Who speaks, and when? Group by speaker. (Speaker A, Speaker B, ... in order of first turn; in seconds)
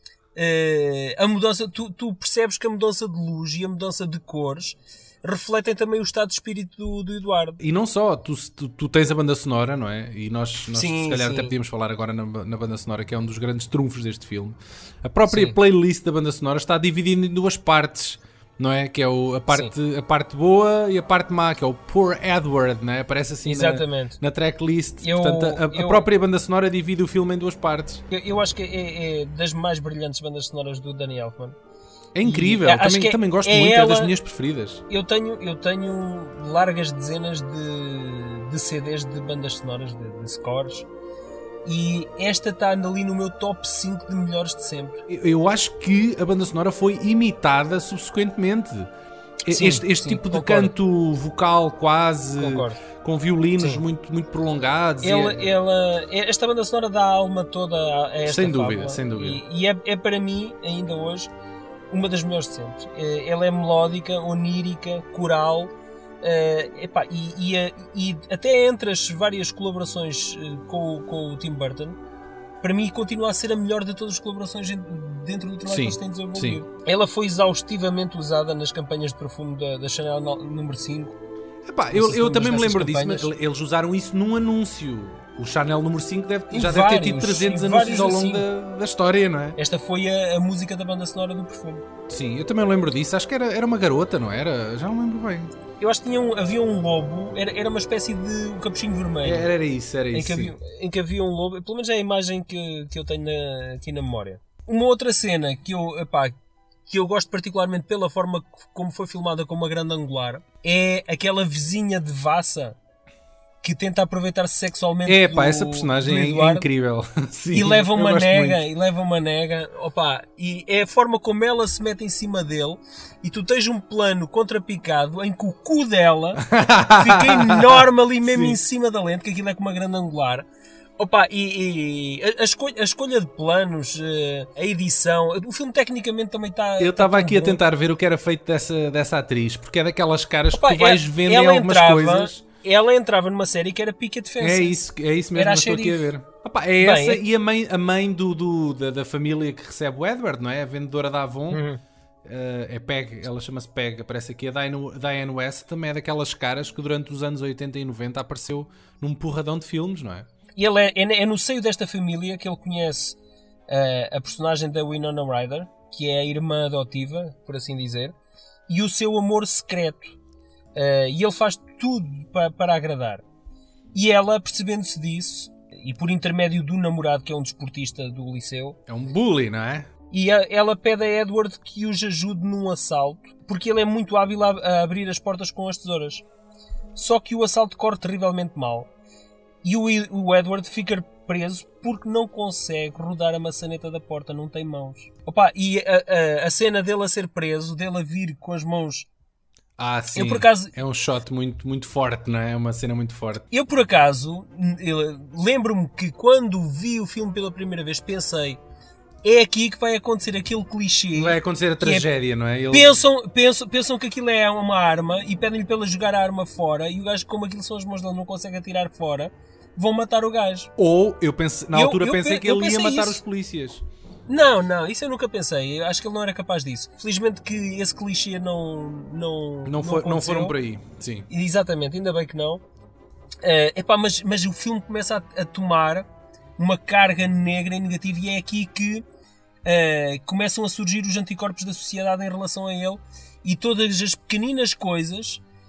Speaker A: 0.3-7.6, 10.7-11.5, 15.3-15.6, 23.4-24.2, 25.0-26.1, 28.1-31.6, 32.2-34.1, 34.9-40.9, 41.6-45.0, 49.5-50.7, 52.4-52.8, 55.0-61.3, 61.9-72.0, 72.6-81.2, 81.9-83.3, 86.5-88.4, 89.6-91.8, 95.8-99.5, 100.1-106.3, 106.9-112.8, 113.6-116.7, 117.5-126.4, 127.0-130.4, 131.0-137.6, 140.5-144.7, 145.3-146.1, 146.8-147.2, 151.5-151.8, 160.6-163.2, 163.7-168.1, 168.7-170.2, 170.7-173.2, 173.9-178.8, 180.1-186.2, 186.9-188.9, 189.6-199.1, 200.1-200.7, 203.5-208.6, 209.2-212.1, 212.7-220.7, 221.7-223.2, 224.3-230.5, 231.3-232.6, 233.4-236.1, 236.6-239.0, 239.6-245.4
Speaker B: 7.6-28.0, 32.1-34.8, 45.1-48.9, 49.4-55.5, 58.2-59.4, 75.7-76.6, 81.6-89.6, 92.1-95.5, 99.2-100.5, 115.0-118.6, 126.4-128.6, 136.8-142.4, 144.4-151.6, 152.2-160.3, 178.9-179.9, 199.8-203.4, 211.1-213.0, 220.8-223.8, 229.6-231.3